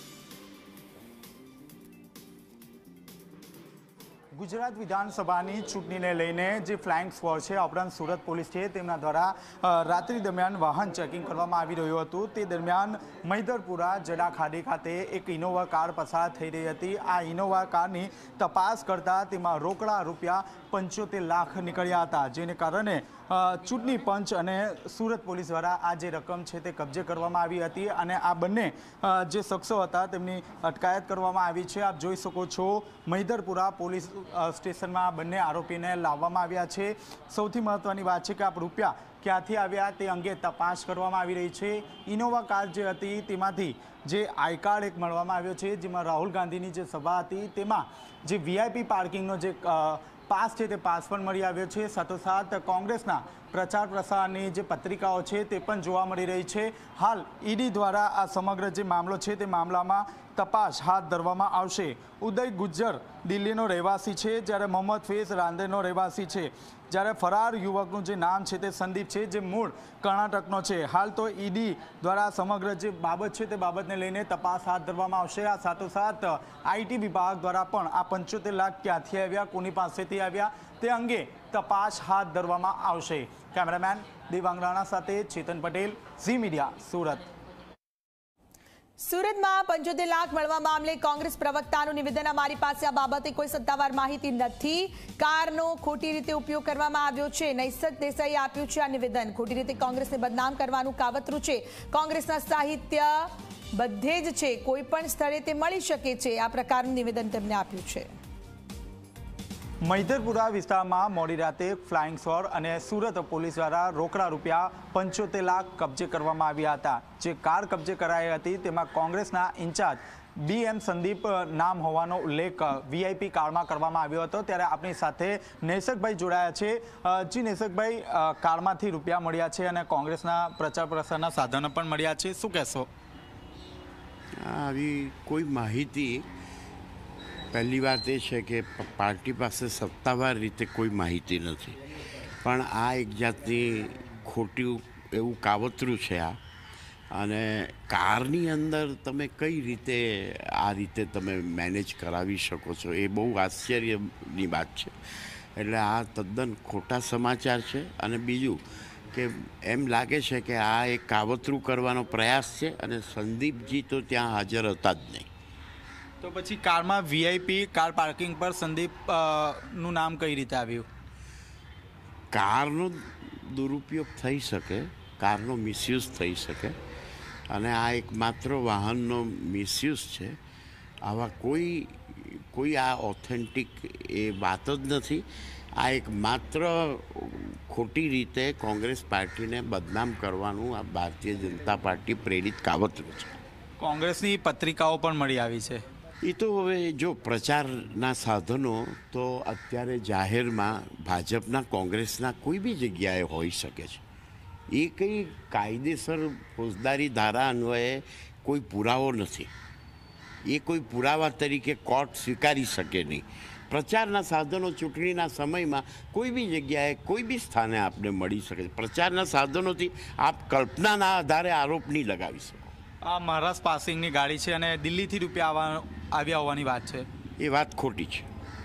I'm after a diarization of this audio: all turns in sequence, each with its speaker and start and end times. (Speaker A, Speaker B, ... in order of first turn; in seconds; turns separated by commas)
Speaker A: 4.3-87.2, Speaker B: 89.0-108.1, Speaker A: 109.8-132.9, Speaker C: 134.4-136.2, Speaker C: 137.5-141.8, Speaker C: 142.4-146.4, Speaker C: 147.1-165.3, Speaker A: 166.2-170.9, Speaker C: 172.3-176.8, Speaker C: 177.5-180.4, Speaker C: 181.1-185.2, Speaker C: 185.8-193.3, Speaker A: 193.8-195.8, Speaker C: 196.2-204.0, Speaker C: 204.7-209.5, Speaker C: 210.4-222.7, Speaker A: 223.0-227.1, Speaker C: 227.4-228.3